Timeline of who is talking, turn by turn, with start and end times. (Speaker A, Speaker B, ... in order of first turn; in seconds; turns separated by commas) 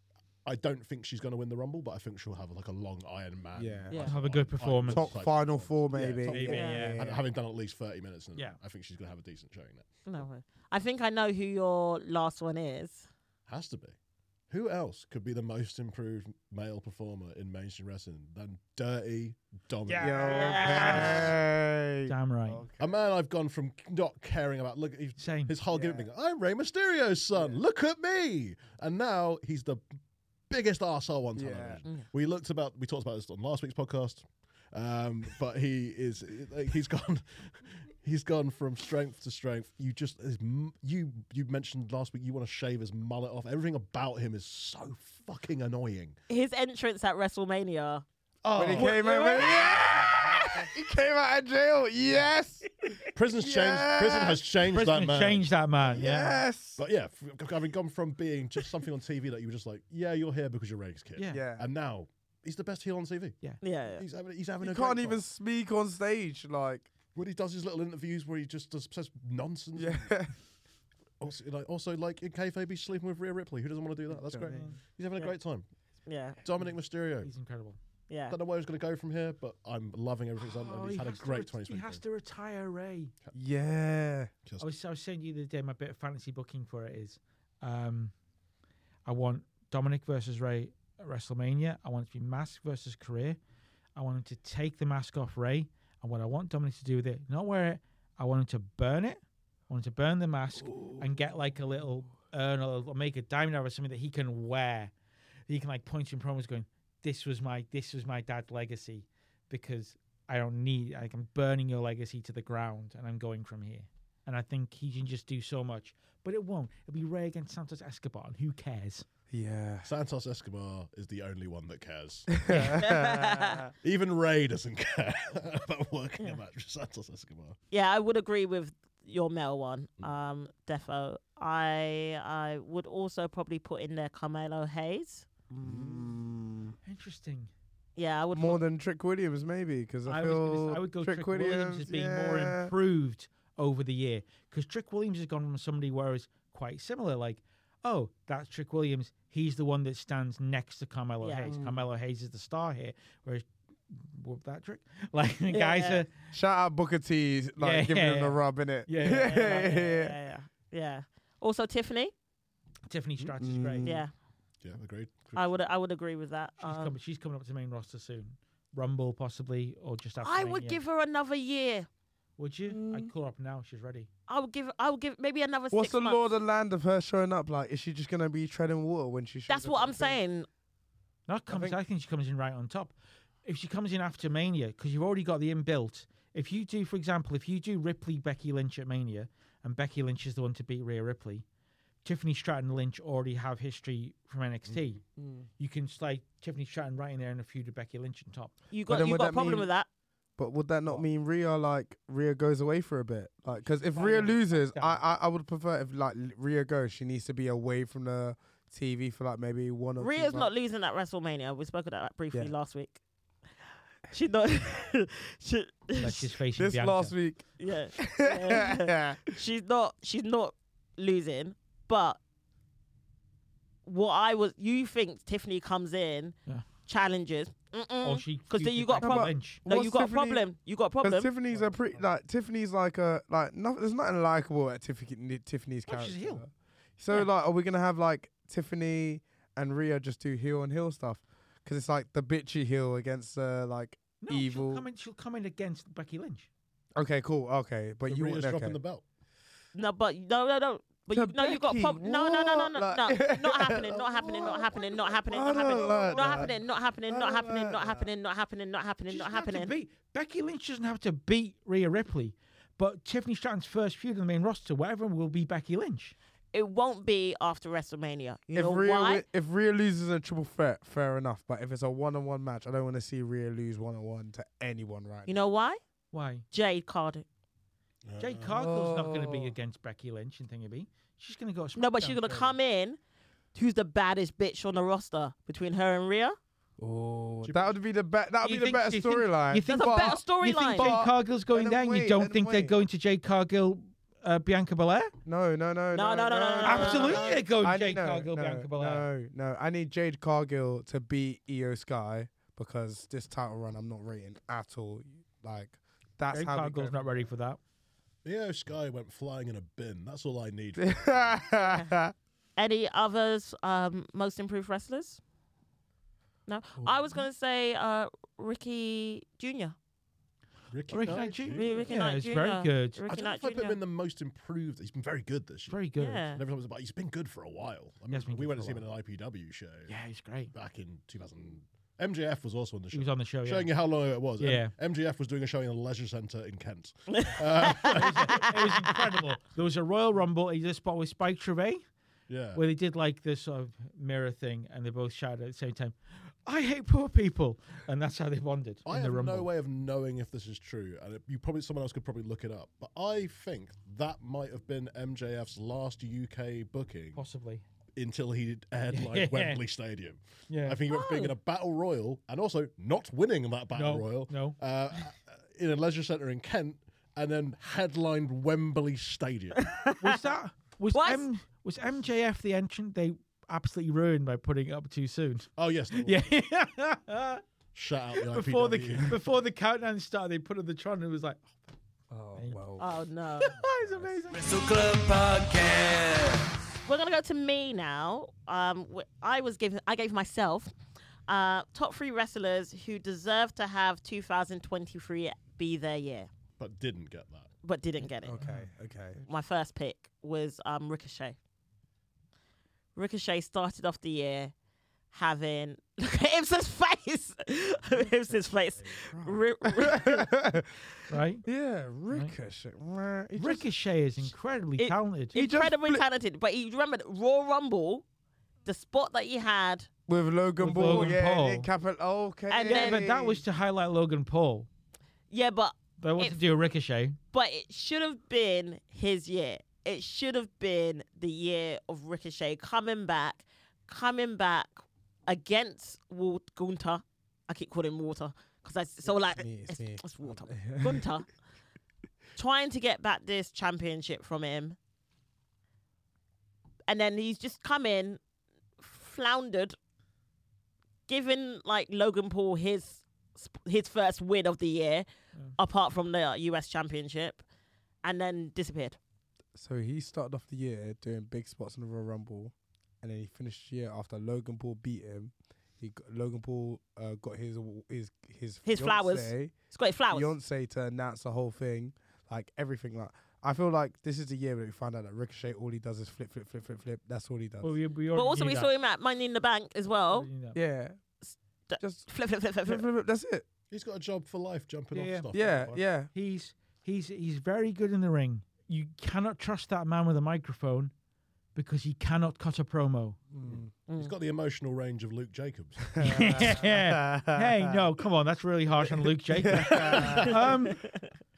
Speaker A: 0.4-9.9, Speaker B: 3.5-4.0, Speaker C: 4.0-5.1, Speaker B: 4.9-7.2, Speaker C: 6.2-7.0, Speaker D: 6.5-6.9, Speaker D: 10.1-13.1, Speaker A: 13.5-13.9, Speaker A: 14.5-21.2, Speaker C: 19.9-21.4, Speaker B: 20.0-22.9, Speaker D: 20.2-21.4, Speaker C: 22.1-22.6, Speaker A: 22.8-29.8, Speaker C: 25.2-25.6, Speaker B: 25.7-26.1, Speaker A: 30.5-46.1, Speaker B: 31.4-31.8, Speaker D: 46.3-48.0, Speaker A: 48.4-50.5, Speaker B: 48.5-54.5, Speaker D: 48.8-50.5, Speaker A: 53.1-56.1, Speaker C: 54.7-56.4, Speaker B: 55.9-56.8, Speaker A: 56.8-63.4, Speaker B: 61.3-61.7, Speaker D: 63.6-64.0, Speaker A: 63.9-65.2, Speaker B: 64.6-66.9, Speaker A: 67.1-70.1, Speaker B: 69.8-70.3, Speaker A: 71.2-75.6, Speaker B: 74.2-74.7, Speaker C: 74.5-74.8, Speaker D: 76.0-76.4, Speaker A: 76.4-77.3, Speaker C: 77.2-77.8, Speaker D: 78.1-78.3, Speaker A: 78.3-82.0, Speaker C: 80.4-83.1, Speaker B: 83.3-84.3, Speaker C: 84.6-88.1, Speaker C: 89.0-93.4, Speaker C: 93.9-104.9, Speaker C: 105.5-119.0, Speaker B: 119.3-119.9, Speaker A: 119.8-122.4, Speaker B: 122.3-123.6, Speaker D: 122.6-123.7, Speaker A: 123.8-127.6, Speaker D: 127.7-135.3, Speaker B: 135.5-136.8, Speaker A: 135.6-136.1, Speaker C: 136.8-137.5, Speaker D: 137.9-138.6, Speaker B: 138.3-142.7, Speaker C: 140.1-156.1, Speaker D: 151.2-151.5, Speaker B: 151.5-151.8, Speaker D: 155.5-156.0, Speaker B: 156.3-160.1, Speaker C: 157.6-159.7, Speaker D: 159.1-162.1, Speaker C: 162.9-163.9, Speaker B: 163.4-164.1, Speaker D: 163.8-164.1, Speaker A: 164.6-165.6, Speaker D: 165.3-166.9, Speaker C: 166.6-170.8, Speaker D: 170.2-171.9, Speaker C: 172.4-174.1, Speaker B: 172.7-173.1, Speaker D: 174.3-176.2, Speaker B: 175.7-180.2, Speaker D: 179.5-180.5, Speaker C: 181.3-191.4, Speaker B: 181.5-181.8, Speaker C: 192.0-195.0, Speaker B: 195.2-195.5, Speaker C: 195.6-198.5, Speaker D: 198.7-199.9, Speaker B: 198.9-199.7, Speaker B: 200.4-210.5, Speaker C: 203.9-205.0, Speaker D: 210.0-213.0, Speaker D: 214.1-216.3, Speaker C: 215.9-217.1, Speaker B: 216.6-219.2, Speaker D: 217.6-222.2, Speaker D: 223.8-231.3, Speaker C: 228.0-229.6, Speaker B: 229.0-230.4, Speaker B: 231.0-244.8, Speaker C: 231.5-232.0, Speaker C: 235.9-236.4, Speaker C: 244.2-246.5, Speaker B: 246.9-248.8, Speaker A: 248.1-249.0, Speaker D: 249.7-259.7, Speaker B: 251.1-253.9, Speaker A: 253.9-256.5, Speaker B: 255.3-256.5, Speaker B: 257.1-258.1, Speaker C: 259.1-266.1, Speaker D: 266.5-269.2, Speaker B: 268.5-275.4, Speaker D: 275.3-275.8, Speaker C: 276.1-276.4, Speaker D: 276.5-277.2, Speaker A: 278.1-278.6, Speaker C: 278.2-282.5, Speaker B: 278.5-279.5, Speaker D: 281.8-283.0, Speaker D: 283.5-286.4, Speaker B: 286.8-292.8, Speaker A: 287.4-287.8, Speaker C: 288.4-295.1, Speaker D: 289.6-290.9, Speaker B: 295.2-307.1, Speaker D: 295.9-297.4, Speaker C: 296.6-299.1, Speaker C: 306.3-307.6, Speaker A: 308.2-311.4, Speaker B: 310.8-312.1, Speaker D: 311.6-311.9, Speaker D: 312.6-315.2, Speaker D: 316.5-319.7, Speaker B: 316.8-317.1, Speaker A: 320.7-321.8, Speaker C: 320.9-323.0, Speaker D: 321.5-323.8, Speaker A: 323.1-329.9, Speaker C: 325.7-326.2, Speaker D: 326.0-326.4, Speaker C: 328.1-328.8, Speaker C: 329.9-330.5, Speaker A: 330.5-338.5, Speaker C: 332.9-333.7, Speaker C: 334.4-334.7, Speaker D: 337.1-339.1, Speaker C: 337.7-341.8, Speaker A: 342.3-342.6, Speaker C: 342.5-349.5, Speaker A: 348.9-357.2, Speaker C: 357.1-357.6, Speaker A: 357.9-369.6, Speaker C: 358.9-359.6, Speaker C: 360.5-360.8, Speaker D: 360.9-361.3, Speaker C: 363.7-364.6, Speaker D: 369.6-370.2, Speaker C: 370.0-377.4, Speaker D: 370.9-371.2, Speaker A: 375.6-376.3, Speaker A: 377.7-379.2, Speaker C: 378.2-381.6, Speaker B: 382.1-382.9, Speaker C: 382.4-382.6, Speaker D: 382.8-383.5, Speaker C: 383.4-384.4, Speaker B: 383.7-384.2, Speaker E: 384.3-386.6, Speaker D: 386.9-390.7, Speaker D: 391.3-396.3, Speaker A: 396.6-397.5, Speaker D: 397.6-398.4, Speaker B: 398.2-399.2, Speaker C: 398.4-398.7, Speaker D: 399.2-401.4, Speaker D: 402.9-404.5, Speaker D: 405.1-410.3, Speaker B: 409.1-410.7, Speaker C: 411.1-411.4, Speaker B: 411.4-413.6, Speaker C: 413.4-415.3, Speaker D: 414.8-418.0, Speaker B: 415.3-416.0, Speaker D: 418.6-419.9, Speaker B: 420.1-423.4, Speaker C: 420.6-421.7, Speaker D: 422.5-423.1, Speaker C: 422.7-424.7, Speaker D: 425.3-426.4, Speaker C: 426.0-427.2, Speaker D: 427.3-441.3, Speaker B: 439.1-441.1, Speaker D: 442.4-444.8, Speaker D: 446.9-448.2, Speaker D: 448.8-449.8, Speaker D: 451.1-455.1, Speaker D: 455.6-457.4, Speaker D: 458.0-459.0, Speaker B: 459.5-469.5, Speaker D: 468.6-470.3, Speaker B: 470.1-477.8, Speaker C: 477.6-478.7, Speaker D: 478.1-480.3, Speaker C: 480.1-480.6, Speaker B: 480.5-481.0, Speaker D: 481.2-482.9, Speaker B: 481.8-482.1, Speaker B: 482.6-483.4, Speaker A: 483.7-485.8, Speaker C: 484.9-485.3, Speaker B: 485.3-486.1, Speaker C: 486.1-490.9, Speaker C: 491.5-493.2, Speaker B: 493.3-493.7, Speaker A: 493.4-495.8, Speaker D: 493.9-494.1, Speaker B: 495.9-497.6, Speaker C: 496.0-500.9, Speaker B: 499.4-500.3, Speaker A: 499.4-500.5, Speaker D: 500.7-501.0